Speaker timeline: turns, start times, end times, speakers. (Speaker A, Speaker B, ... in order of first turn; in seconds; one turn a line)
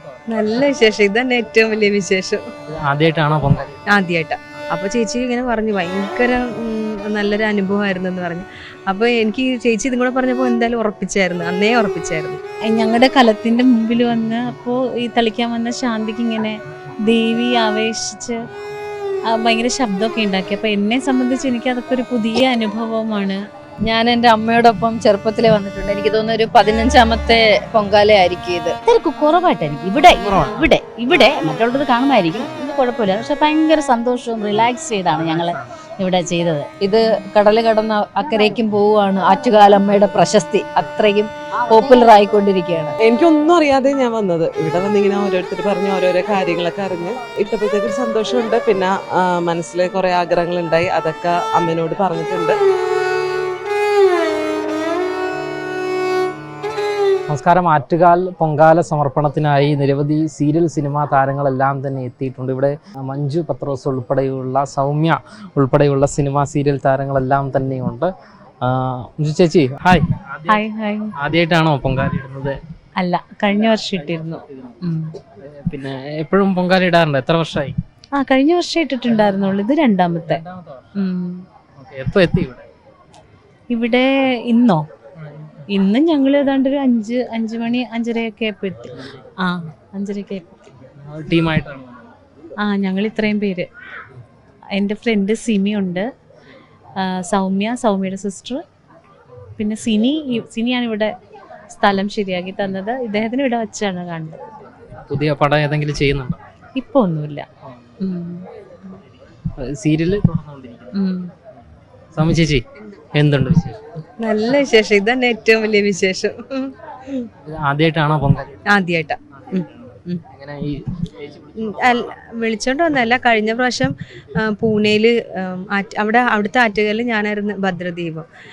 Speaker A: 0.3-2.4
Speaker B: 2.7-3.8
Speaker A: 3.9-12.4
Speaker C: 12.7-18.4
Speaker C: 19.3-23.4
Speaker D: 23.9-28.8
Speaker E: 28.9-36.6
Speaker B: 30.1-30.6
Speaker D: 36.8-43.0
Speaker F: 43.0-52.6
Speaker B: 57.3-68.1
Speaker B: 68.6-70.6
Speaker C: 70.5-71.2
Speaker B: 71.2-72.5
Speaker C: 73.0-75.1
Speaker B: 74.4-74.8
Speaker B: 75.4-77.8
Speaker C: 78.2-80.4
Speaker B: 80.4-80.8
Speaker C: 81.0-81.5
Speaker B: 81.8-82.7
Speaker C: 83.7-84.8
Speaker C: 85.7-90.7
Speaker B: 91.0-91.9
Speaker C: 92.6-93.7
Speaker C: 94.8-96.1
Speaker C: 97.0-98.6
Speaker C: 99.6-101.1
Speaker C: 101.8-104.5
Speaker B: 105.1-106.4
Speaker C: 106.8-107.5
Speaker C: 108.0-108.5
Speaker B: 109.6-111.0
Speaker C: 110.9-111.3
Speaker B: 112.2-112.6
Speaker B: 113.2-113.8
Speaker A: 114.2-117.3
Speaker B: 117.4-118.6
Speaker A: 118.7-120.2
Speaker B: 120.3-122.0
Speaker A: 121.6-128.3